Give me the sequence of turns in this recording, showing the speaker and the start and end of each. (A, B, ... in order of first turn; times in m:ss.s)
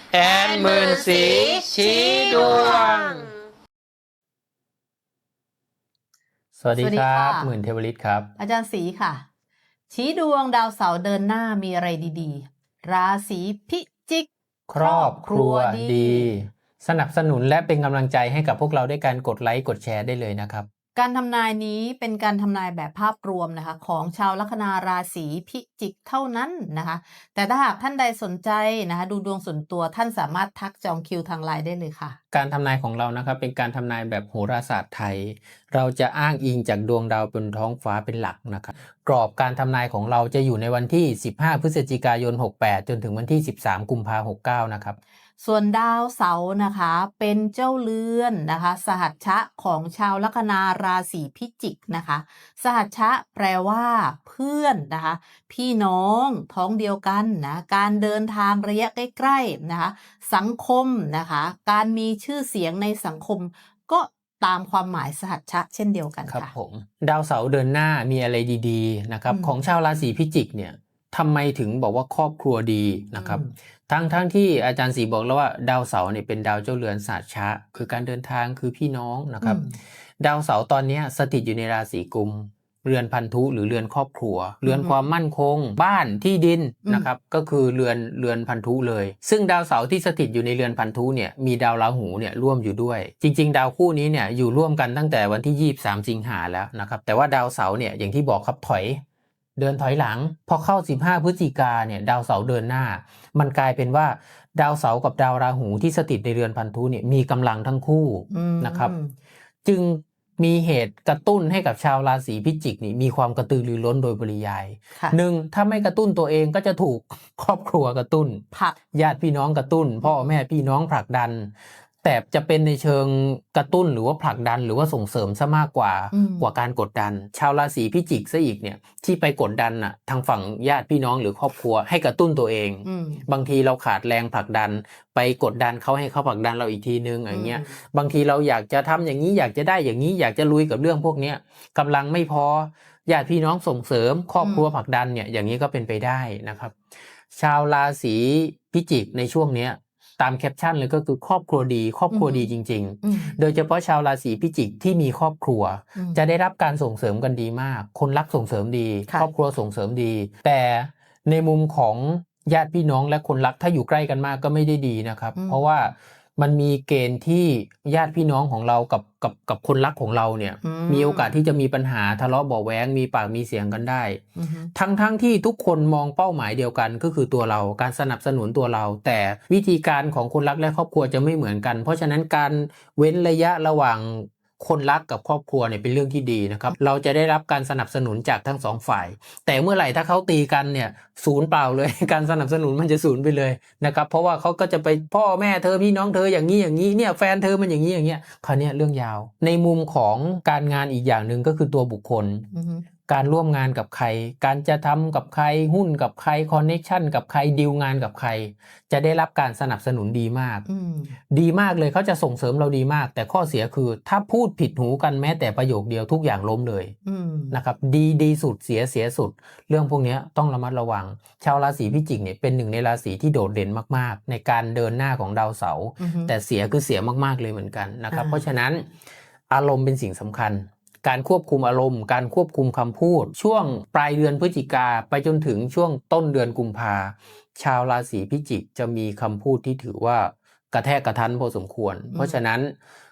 0:00.1-0:03.4 A
0:02.2-0:02.9 B
0:06.6-0:08.3 B
0:06.8-0:07.5 C
0:08.4-0:09.2 C
0:09.9-0:16.3 C
0:14.7-0:20.7 B
0:21.0-0:32.2 C
0:32.3-0:45.0 B
0:45.4-1:06.5 C
1:06.3-1:19.6 B
1:13.2-1:13.5 C
1:19.4-1:19.8 C
1:20.2-1:39.0 B
1:24.6-1:25.0 C
1:39.6-1:49.0 B
1:48.3-1:49.1 C
1:49.6-2:26.8 B
1:58.5-1:58.8 C
2:06.1-2:06.5 C
2:12.8-2:13.2 C
2:17.3-2:17.7 C
2:24.4-2:24.7 C
2:27.3-2:54.2 B
2:32.1-2:32.5 C
2:33.0-2:33.4 C
2:50.6-2:51.4 C
2:54.4-2:54.7 C
2:54.8-3:22.5 B
3:22.5-3:22.8 C
3:23.1-3:30.6 B
3:30.7-3:31.1 C
3:31.3-3:36.9 B
3:37.1-3:37.6 C
3:37.5-3:48.9 B
3:46.0-3:46.3 C
3:48.1-3:48.4 C
3:49.5-4:02.8 B